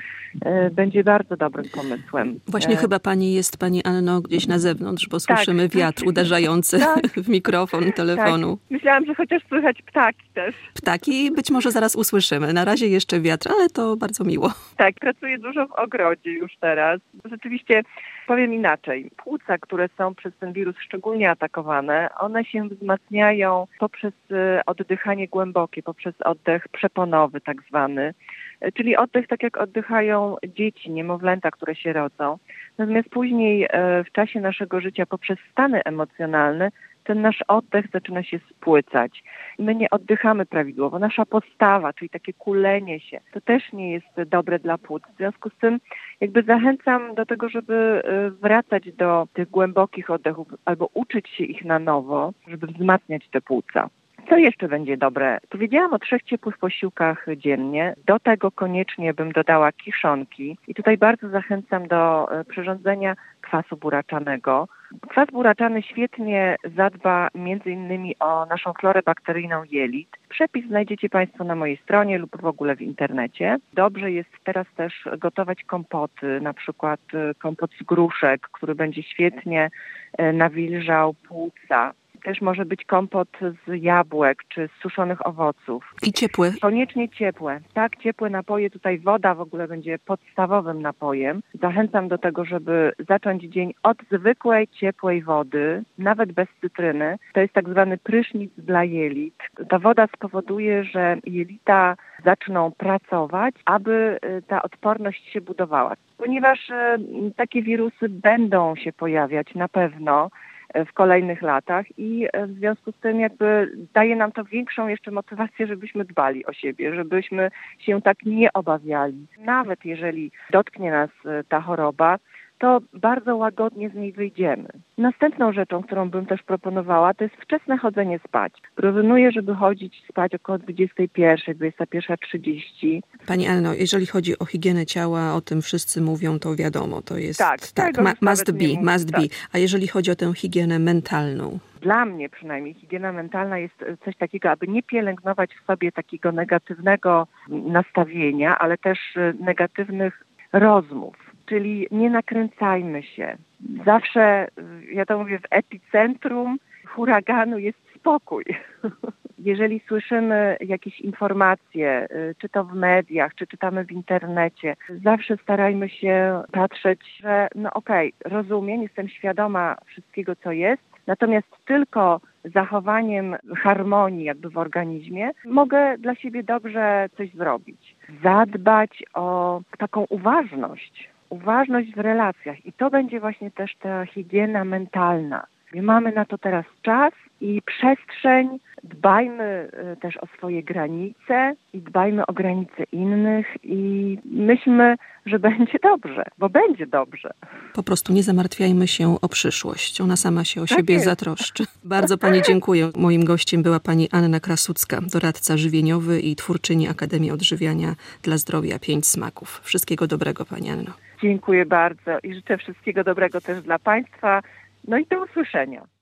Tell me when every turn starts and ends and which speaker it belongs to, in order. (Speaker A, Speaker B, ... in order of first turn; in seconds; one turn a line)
Speaker A: 0.4-2.9
Speaker B: 2.5-8.6
Speaker A: 5.3-6.2
Speaker A: 6.8-7.1
Speaker A: 8.1-10.7
Speaker B: 10.8-14.5
Speaker A: 14.8-86.0
Speaker B: 86.0-86.6
Speaker A: 86.6-133.0
Speaker B: 133.3-141.6
Speaker A: 137.4-139.3
Speaker A: 141.8-158.6
Speaker A: 159.4-197.3
Speaker B: 197.7-211.0
Speaker A: 200.7-201.1
Speaker A: 211.2-215.9